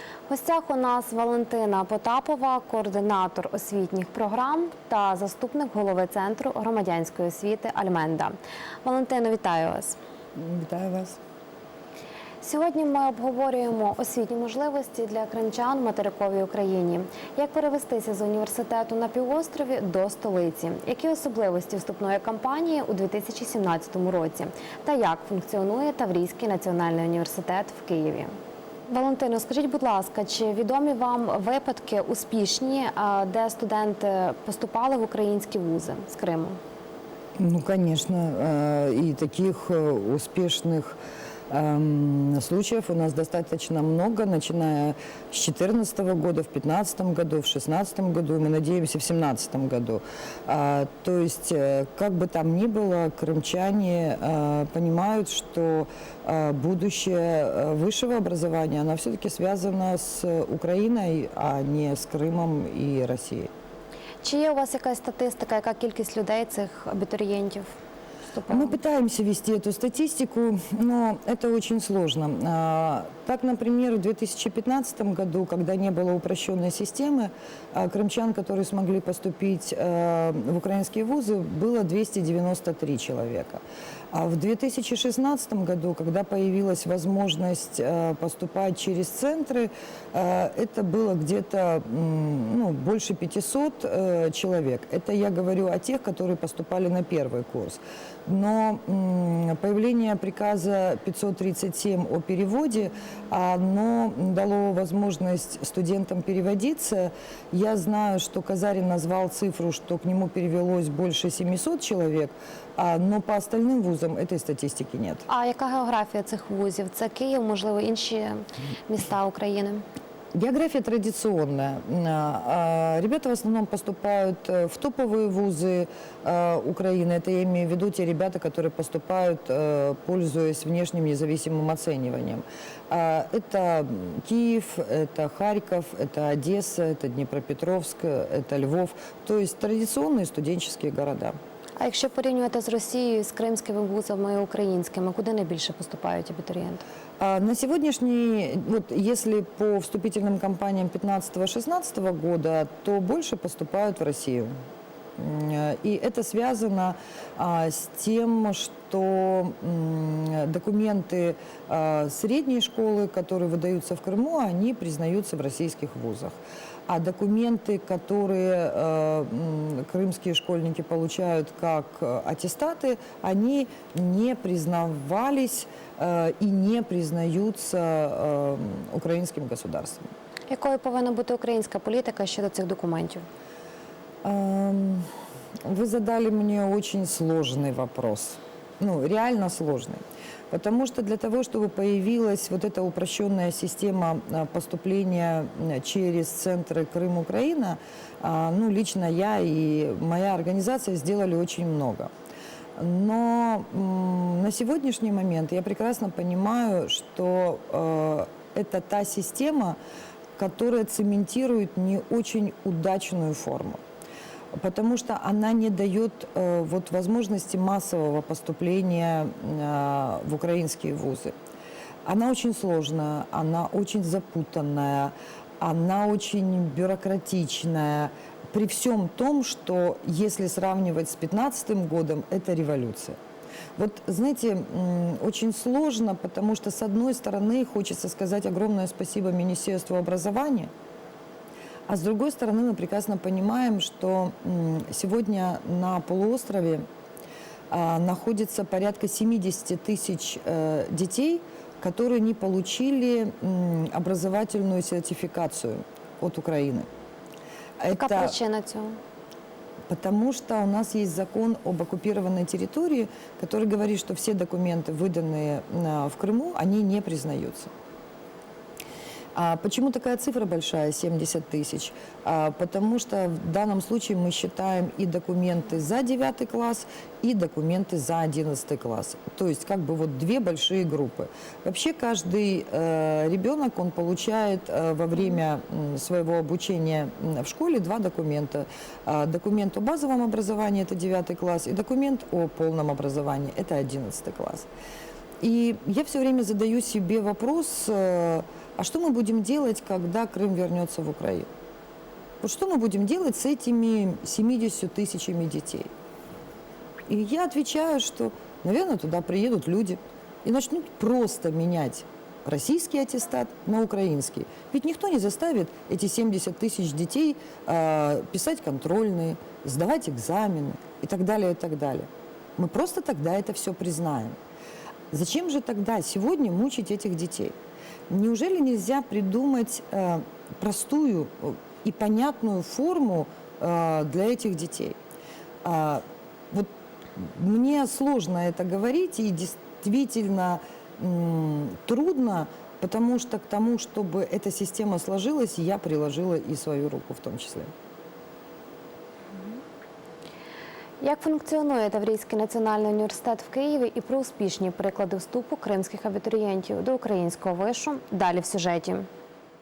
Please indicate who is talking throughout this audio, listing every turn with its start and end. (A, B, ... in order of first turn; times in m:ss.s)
0:00.3-0:10.0 A
0:10.4-0:11.2 B
0:12.4-0:28.3 A
0:28.9-0:36.6 A
0:37.4-0:41.0 B
0:41.5-1:03.5 B
1:04.2-1:07.7 A
1:08.3-1:08.8 A
1:08.5-1:55.2 B
1:55.3-1:59.8 A
2:00.3-2:21.4 B
2:21.8-2:26.8 A
2:27.2-2:34.6 B
2:35.2-3:00.1 B
3:00.5-3:03.2 A
3:04.2-3:05.1 B
3:05.6-3:22.1 B
3:22.8-3:29.8 B
3:30.4-3:33.8 B
3:34.5-3:41.4 B
3:42.0-3:53.2 B
3:53.8-4:00.7 B
4:01.9-4:06.9 B
4:07.7-4:16.9 B
4:17.8-4:18.3 B
4:17.9-4:19.0 A
4:19.9-4:27.7 B
4:29.4-4:54.7 B
4:55.4-5:01.5 B
5:02.4-5:05.9 B
5:07.1-5:24.4 B
5:25.1-5:27.6 B
5:28.1-5:35.0 B
5:35.6-5:47.7 B
5:51.0-5:59.1 A